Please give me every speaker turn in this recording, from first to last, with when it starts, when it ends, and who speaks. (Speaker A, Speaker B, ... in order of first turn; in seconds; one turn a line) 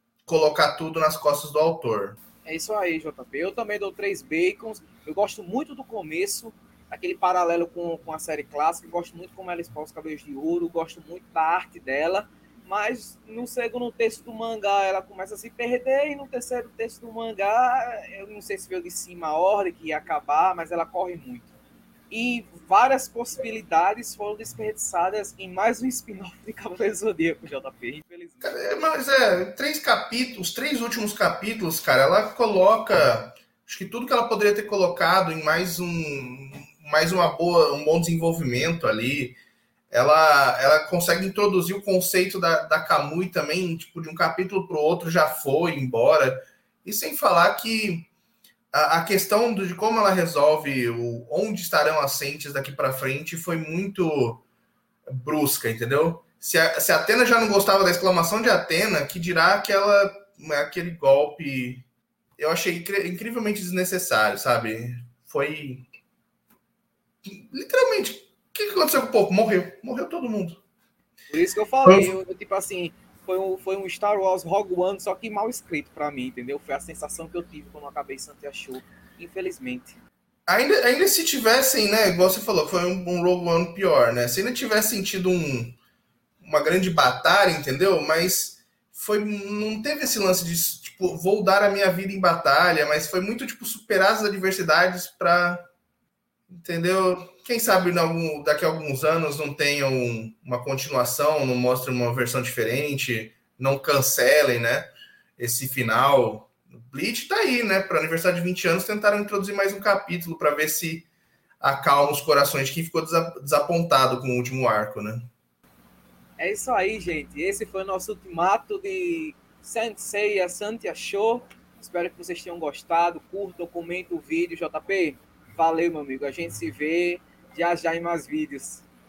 Speaker A: 0.2-2.2
Speaker B: 2.4-21.5
Speaker B: 22.1-28.6
Speaker A: 28.4-39.4
Speaker A: 39.9-48.1
Speaker A: 48.7-54.4
Speaker A: 55.1-61.9
Speaker A: 62.4-65.9
Speaker A: 67.2-70.6
Speaker B: 71.3-80.0
Speaker A: 71.8-72.1
Speaker A: 80.5-85.8
Speaker A: 86.4-95.7
Speaker A: 96.5-111.1
Speaker A: 111.6-115.3
Speaker B: 116.4-128.8